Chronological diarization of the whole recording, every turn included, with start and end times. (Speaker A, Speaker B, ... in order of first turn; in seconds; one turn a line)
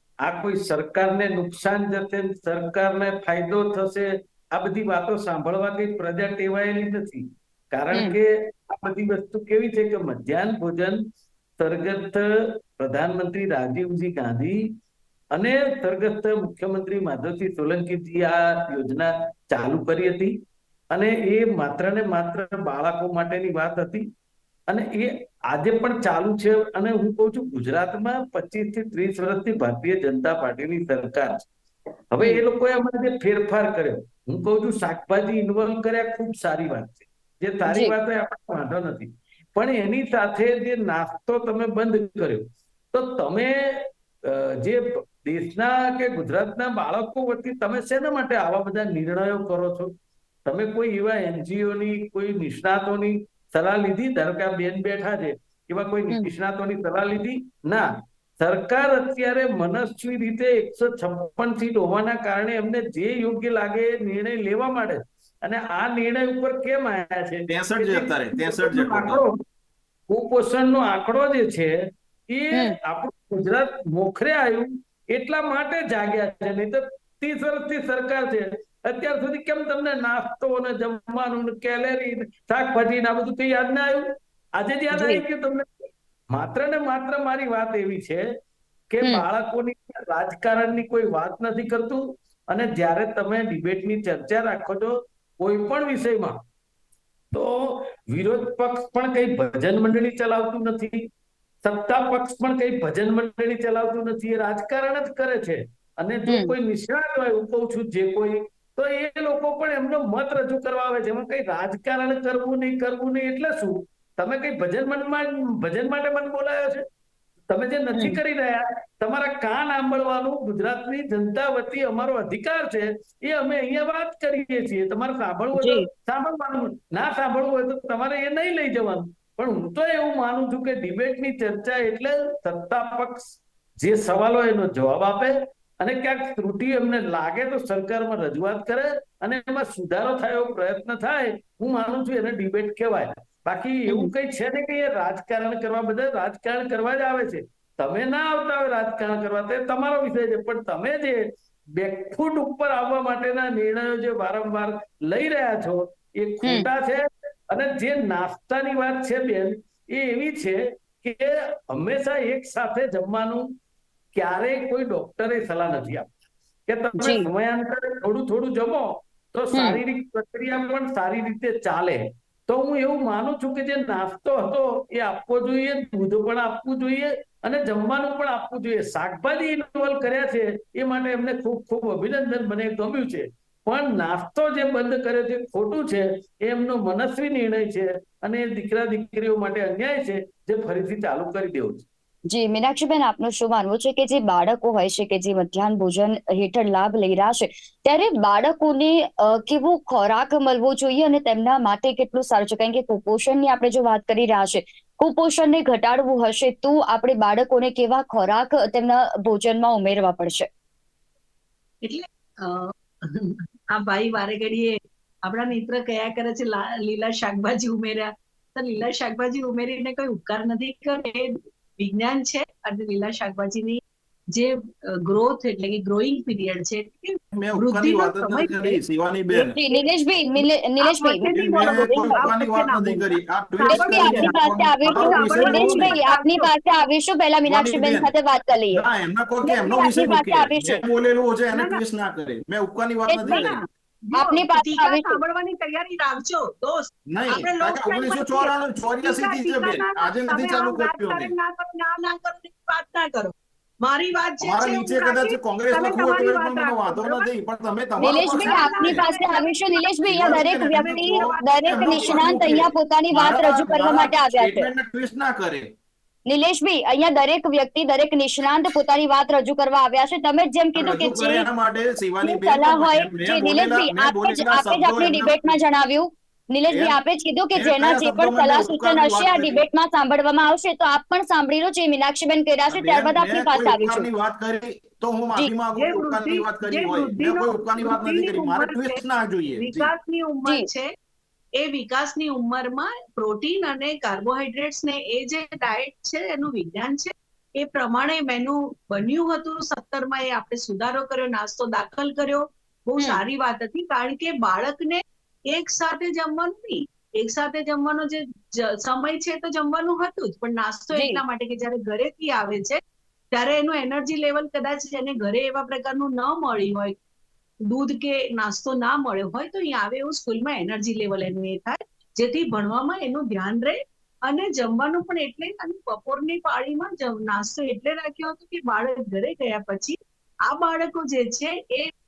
Speaker A: 0.2-11.0
Speaker A: 11.6-14.7
Speaker A: 15.3-20.3
Speaker A: 20.9-24.1
Speaker A: 24.7-31.5
Speaker A: 32.1-49.9
Speaker B: 37.7-37.9
Speaker A: 50.5-57.9
Speaker A: 58.4-69.4
Speaker C: 67.5-69.2
Speaker A: 70.1-71.7
Speaker A: 72.3-84.1
Speaker A: 84.6-85.7
Speaker B: 84.9-85.2
Speaker A: 86.3-88.2
Speaker A: 88.9-96.4
Speaker A: 97.3-101.0
Speaker A: 101.6-116.8
Speaker B: 106.3-106.5
Speaker A: 117.5-163.5
Speaker B: 117.9-118.2
Speaker B: 125.5-125.9
Speaker B: 156.4-156.7
Speaker A: 164.1-166.1
Speaker A: 166.7-191.9
Speaker B: 167.0-167.3
Speaker B: 169.5-169.8
Speaker B: 192.3-210.5
Speaker D: 211.8-223.8
Speaker D: 224.3-228.8
Speaker C: 227.3-229.5
Speaker B: 229.3-232.2
Speaker D: 230.8-234.3
Speaker C: 231.3-235.9
Speaker B: 233.7-238.8
Speaker D: 234.8-236.5
Speaker C: 237.5-243.6
Speaker B: 239.4-240.8
Speaker D: 241.5-241.8
Speaker B: 243.1-243.5
Speaker D: 243.3-257.3
Speaker B: 244.1-245.2
Speaker C: 247.1-251.3
Speaker C: 254.4-259.0
Speaker B: 258.0-264.7
Speaker D: 258.0-262.6
Speaker C: 260.1-265.7
Speaker B: 266.3-271.5
Speaker C: 270.8-275.6
Speaker B: 272.2-284.1
Speaker C: 276.7-277.0
Speaker C: 277.6-279.6
Speaker C: 282.7-289.9
Speaker D: 285.8-289.0
Speaker D: 289.6-290.9
Speaker D: 291.6-312.8
Speaker B: 310.9-311.2
Speaker D: 313.3-317.0
Speaker D: 317.7-331.9